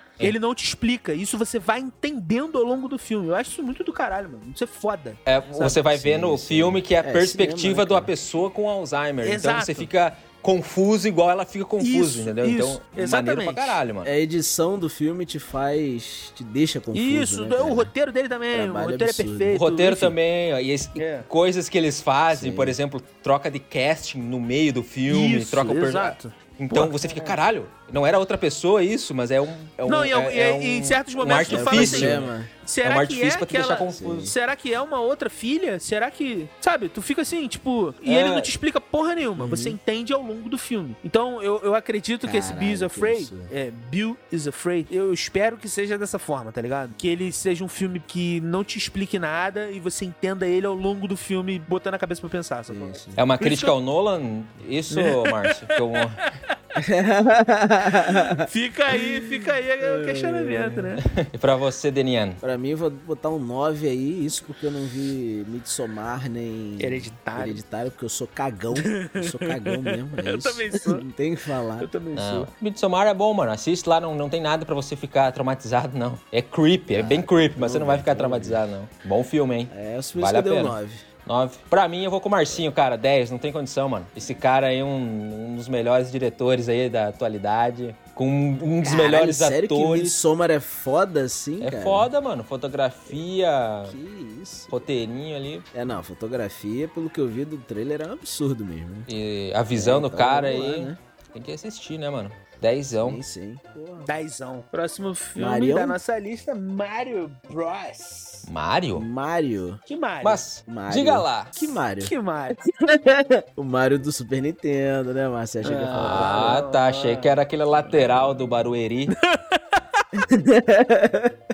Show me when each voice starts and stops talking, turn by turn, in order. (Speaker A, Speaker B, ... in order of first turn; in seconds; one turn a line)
Speaker A: 0.2-5.8
Speaker B: 5.3-14.1
Speaker C: 5.6-8.1
Speaker A: 9.2-9.9
Speaker A: 11.8-13.8
Speaker C: 14.0-17.9
Speaker A: 16.9-20.1
Speaker C: 18.5-19.6
Speaker B: 19.5-32.3
Speaker A: 21.0-21.3
Speaker C: 22.3-22.8
Speaker A: 25.1-27.4
Speaker A: 29.9-53.7
Speaker C: 31.5-32.5
Speaker B: 32.8-34.2
Speaker C: 33.9-34.3
Speaker B: 38.0-38.5
Speaker C: 39.4-39.8
Speaker C: 42.2-43.5
Speaker C: 52.7-53.2
Speaker B: 53.2-56.2
Speaker A: 54.9-56.2
Speaker C: 56.8-61.0
Speaker A: 58.4-61.0
Speaker B: 61.0-62.4
Speaker C: 62.4-71.9
Speaker A: 66.8-67.6
Speaker A: 68.8-71.0
Speaker A: 71.8-72.5
Speaker B: 72.2-90.2
Speaker C: 76.9-78.6
Speaker C: 79.7-81.0
Speaker C: 88.8-92.1
Speaker B: 91.6-94.0
Speaker C: 93.9-94.8
Speaker B: 94.7-95.7
Speaker C: 95.7-99.1
Speaker B: 99.1-103.2
Speaker C: 99.7-101.0
Speaker C: 103.0-104.1
Speaker A: 104.0-108.5
Speaker C: 105.4-106.0
Speaker B: 108.5-109.1
Speaker C: 109.0-109.8
Speaker A: 109.9-110.4
Speaker B: 110.2-111.8
Speaker C: 110.7-112.1
Speaker A: 112.0-112.6
Speaker C: 112.7-116.6
Speaker A: 115.6-117.4
Speaker B: 115.9-119.1
Speaker A: 119.1-120.0
Speaker C: 120.2-121.4